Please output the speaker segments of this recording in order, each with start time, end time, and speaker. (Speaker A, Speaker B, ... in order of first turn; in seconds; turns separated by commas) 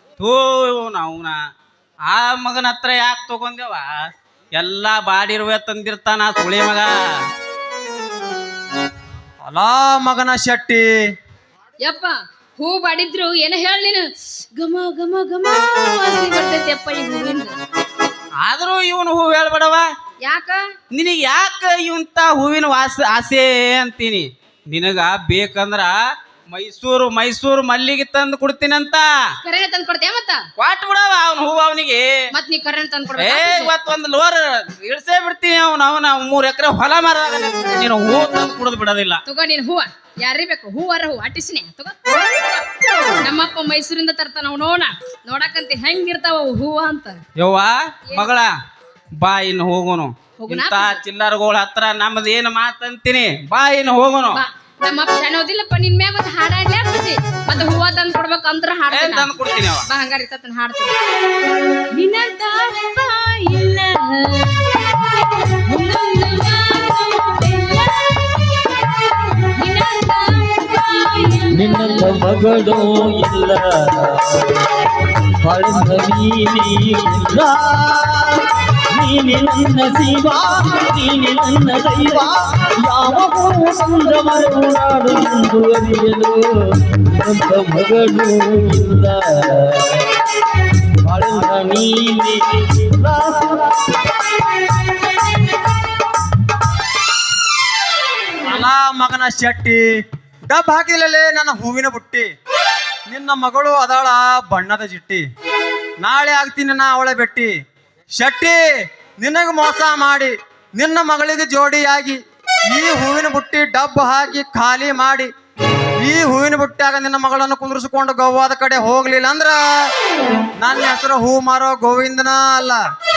Speaker A: 0.2-1.4, Speaker A: 2.1-3.9, Speaker A: 4.6-6.9, Speaker B: 9.4-10.9, Speaker C: 11.8-14.1, Speaker C: 14.6-17.5, Speaker A: 18.4-19.9, Speaker C: 20.2-20.6, Speaker A: 20.9-25.9, Speaker A: 26.5-29.1, Speaker C: 29.4-30.4, Speaker A: 30.6-32.1, Speaker C: 32.3-33.7, Speaker A: 33.2-39.2, Speaker C: 39.3-42.6, Speaker C: 43.2-47.2, Speaker A: 47.4-48.5, Speaker A: 49.2-54.4, Speaker C: 50.4-51.0, Speaker C: 54.4-59.3, Speaker A: 58.9-59.8, Speaker C: 59.9-60.9, Speaker C: 61.9-68.3, Speaker C: 69.4-72.3, Speaker D: 71.5-74.7, Speaker D: 75.2-77.7, Speaker B: 77.6-78.5, Speaker D: 78.9-90.2, Speaker B: 82.1-82.7, Speaker D: 91.0-94.0, Speaker B: 98.4-99.8, Speaker B: 100.5-102.3, Speaker B: 103.1-105.2, Speaker B: 106.0-107.5, Speaker B: 108.2-108.6, Speaker B: 109.2-112.2, Speaker B: 112.7-115.3, Speaker B: 116.0-119.6, Speaker B: 120.6-122.8